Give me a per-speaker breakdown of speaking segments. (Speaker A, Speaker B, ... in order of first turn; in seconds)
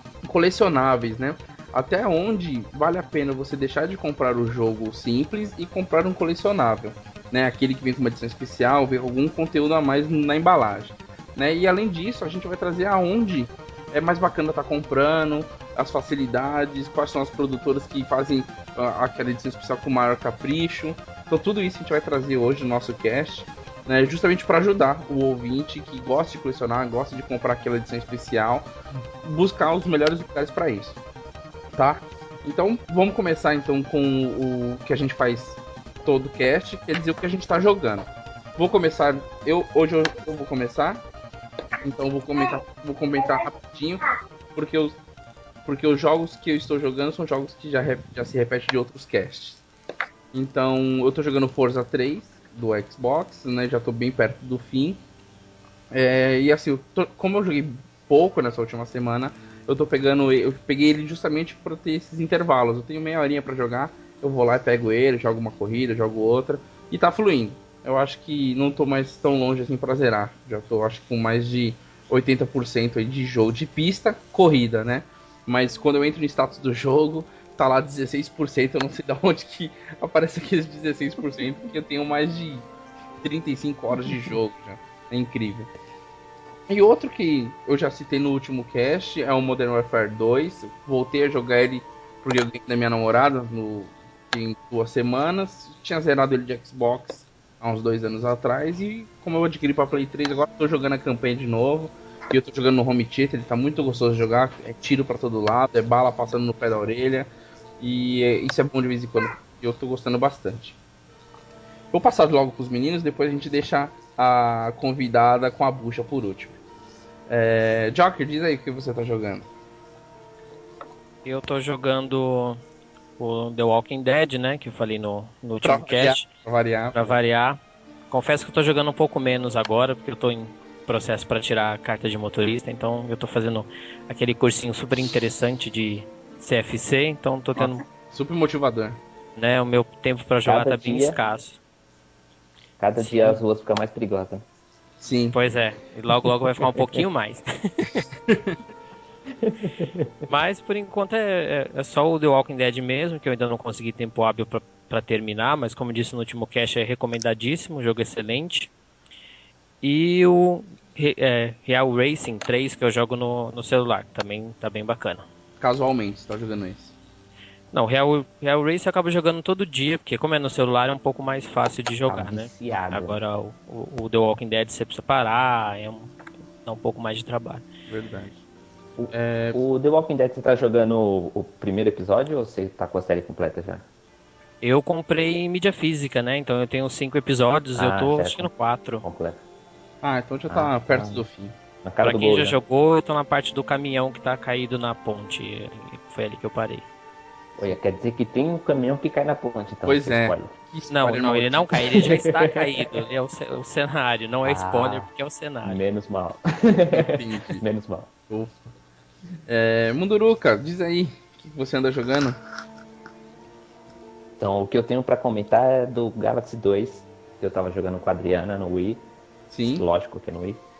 Speaker A: 0.2-28.7, 29.2-31.0, 31.7-41.0, 41.8-44.0, 44.5-45.0, 45.6-49.6, 50.3-55.0, 55.9-82.7, 83.2-85.7, 86.7-107.3, 107.8-110.8, 111.9-116.6, 117.3-119.5, 125.6-127.2, 137.6-139.0, 145.0-145.3, 148.3-148.5, 165.6-166.9, 177.9-178.3, 179.1-179.6, 190.0-191.5, 199.8-201.9, 206.9-207.6, 208.3-208.6, 209.5-212.3, 219.5-219.8
Speaker B: 121.2-122.6, 123.2-126.3, 126.9-127.6, 128.1-137.8, 139.3-141.6, 143.0-143.4, 145.3-148.1, 150.3-158.7, 159.8-165.2, 167.7-177.7, 184.6-189.0, 192.0-196.8, 200.9-205.8
Speaker C: 140.4-141.2, 142.8-144.4, 146.7-147.0, 149.4-150.2, 172.1-173.2, 179.0-183.8, 187.7-188.5, 189.0-189.4, 190.5-191.2, 191.8-192.6, 197.6-200.5, 201.8-203.0, 204.4-205.1, 205.6-208.1, 214.4-219.0, 219.6-220.6